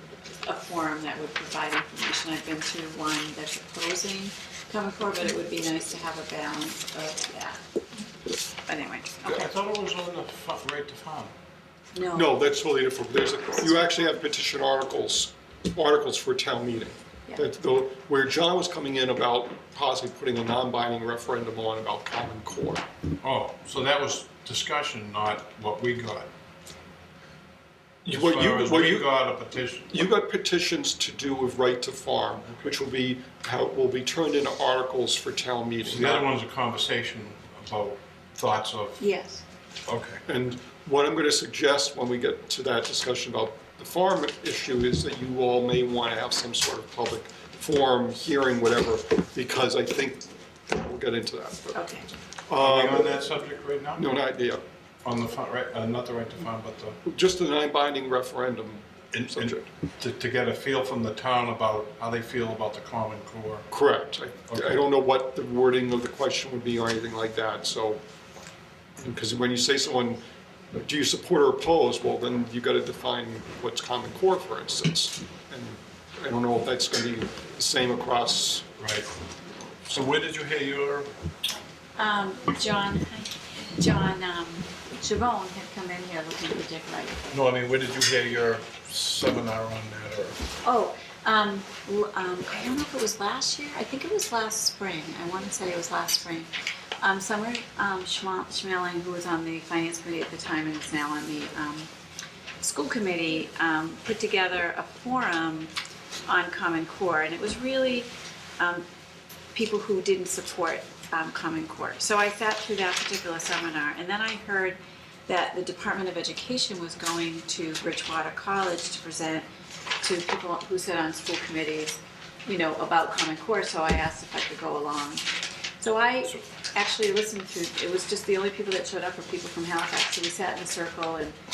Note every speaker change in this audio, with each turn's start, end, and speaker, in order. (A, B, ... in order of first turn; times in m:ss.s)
0:00.4-0:07.6 A
0:08.7-0:09.5 A
0:09.2-0:11.3 B
0:11.9-0:12.4 A
0:12.1-0:22.8 C
0:23.2-0:26.3 B
0:28.0-0:29.1 C
0:28.1-0:30.1 B
0:29.9-0:36.2 C
0:32.4-0:32.7 B
0:35.8-0:39.0 B
0:39.0-0:39.4 A
0:39.9-0:40.2 B
0:40.2-0:51.8 C
0:51.7-0:52.1 A
0:52.5-0:53.2 C
0:52.6-0:54.1 B
0:54.0-0:54.6 C
0:55.0-0:57.0 B
0:57.0-0:59.6 C
0:59.1-1:03.6 B
1:03.7-1:08.0 C
1:04.5-1:04.8 B
1:09.0-1:10.2 C
1:10.7-1:18.6 C
1:18.8-1:19.1 B
1:19.9-1:21.1 B
1:22.0-1:27.3 A
1:27.3-1:30.4 B
1:30.6-1:36.5 A
1:37.0-1:41.9 A
1:42.6-1:45.7 A
1:46.3-1:48.8 A
1:49.5-1:59.4 A
2:00.0-2:05.2 A
2:05.8-2:11.4 A